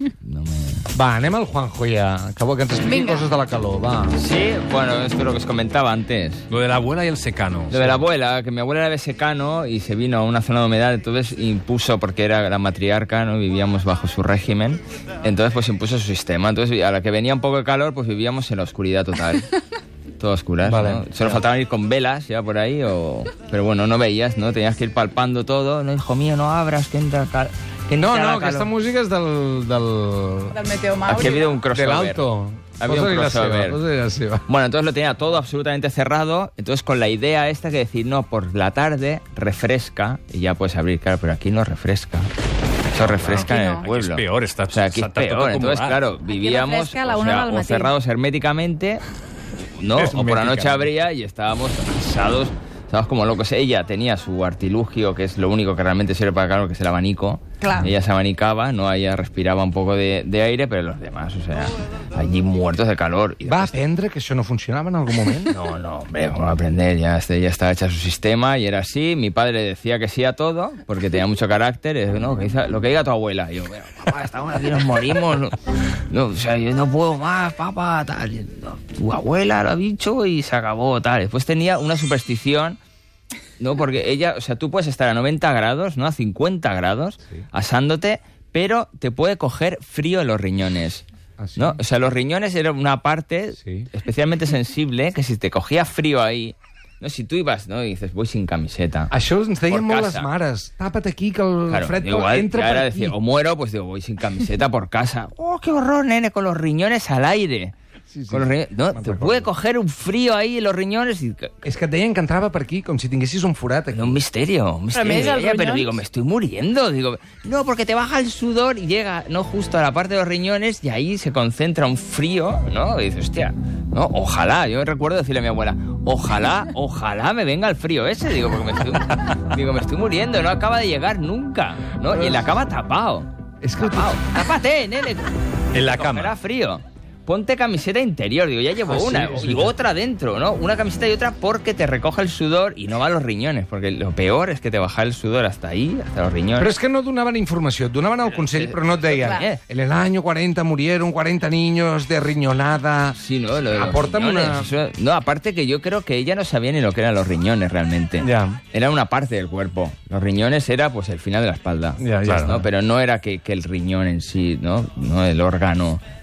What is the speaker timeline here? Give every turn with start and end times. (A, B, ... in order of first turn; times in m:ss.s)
0:00.2-0:00.8 A
0:00.9-0:04.2 B
0:02.8-0:03.3 C
0:04.1-0:06.4 A
0:06.5-0:08.0 D
0:07.7-0:19.5 A
0:20.2-0:28.7 A
0:20.6-0:21.4 B
0:28.0-0:30.6 B
0:30.5-0:31.5 C
0:31.1-0:32.3 A
0:31.6-0:34.4 B
0:32.8-0:33.8 A
0:34.5-0:42.3 A
0:42.9-0:49.0 A
0:43.0-0:46.0 D
0:43.4-0:43.8 C
0:46.3-0:47.9 C
0:49.8-1:03.8 A
0:49.9-0:50.9 D
0:57.6-0:57.9 C
1:03.4-1:05.5 B
1:05.5-1:15.6 A
1:16.1-1:22.8 A
1:23.6-1:31.0 A
1:31.4-1:31.8 B
1:31.6-1:39.1 A
1:33.6-1:33.9 B
1:39.1-1:43.2 B
1:39.7-1:40.3 A
1:41.7-1:47.7 A
1:48.1-1:49.5 B
1:48.3-1:51.5 A
1:51.6-1:54.2 B
1:53.9-2:26.7 A
1:54.9-1:55.9 C
2:13.6-2:14.2 B
2:15.7-2:16.3 D
2:18.9-2:19.7 B
2:26.6-2:33.2 B
2:28.2-2:29.6 A
2:29.1-2:29.4 C
2:33.2-2:46.0 A
2:33.7-2:34.7 B
2:38.2-2:38.6 B
2:42.0-2:42.6 B
2:42.2-2:42.5 D